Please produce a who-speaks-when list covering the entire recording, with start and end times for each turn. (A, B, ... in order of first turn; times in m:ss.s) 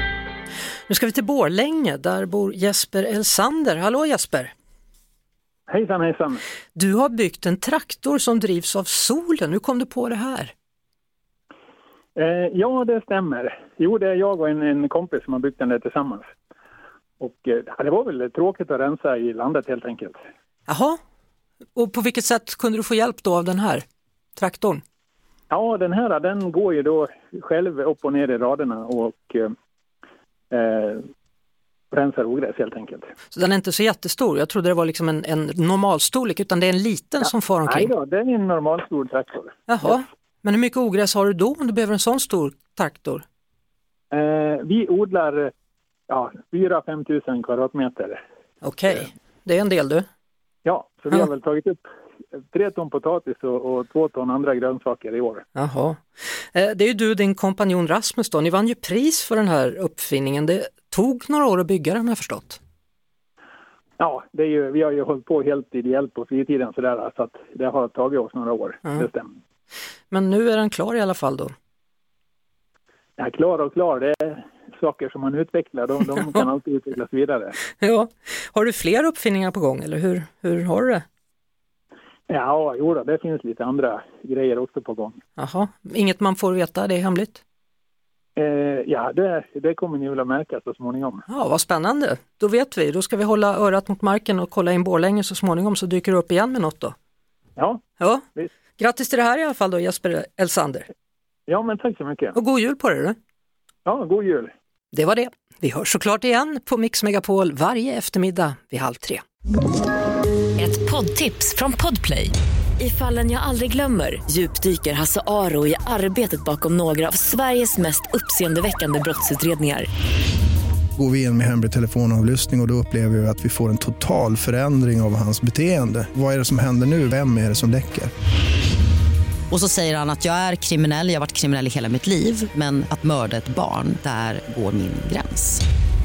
0:00.9-0:04.5 A
0:05.7-0:06.4 B
0:06.8-0:10.5 A
0:12.2-0:16.3 B
0:17.2-0:20.2 B
0:20.7-0:21.0 A
0:21.8-0:23.8 A
0:24.4-0:24.8 A
0:25.5-0:29.5 B
0:30.5-0:31.0 B
0:31.9-0:33.1 B
0:33.3-0:37.9 A
0:37.7-0:39.6 B
0:39.7-0:43.2 A
0:44.1-0:45.5 B
0:46.1-0:48.2 B
0:48.6-0:50.1 A
0:50.6-0:51.8 B
0:52.4-0:55.4 B
0:55.6-0:56.0 A
0:56.5-1:02.6 A
1:04.0-1:09.4 B
1:10.1-1:11.5 A
1:13.2-1:17.6 B
1:17.8-1:21.0 A
1:22.3-1:25.2 B
1:25.4-1:27.4 A
1:28.4-1:31.2 B
1:31.3-1:37.0 A
1:37.6-1:37.8 B
1:38.0-1:38.2 A
1:38.8-1:40.9 A
1:41.5-1:42.4 B
1:42.3-1:43.2 A
1:43.9-1:44.5 B
1:44.9-1:49.2 A
1:50.6-1:59.9 C
2:01.0-2:08.1 D
2:09.5-2:15.6 E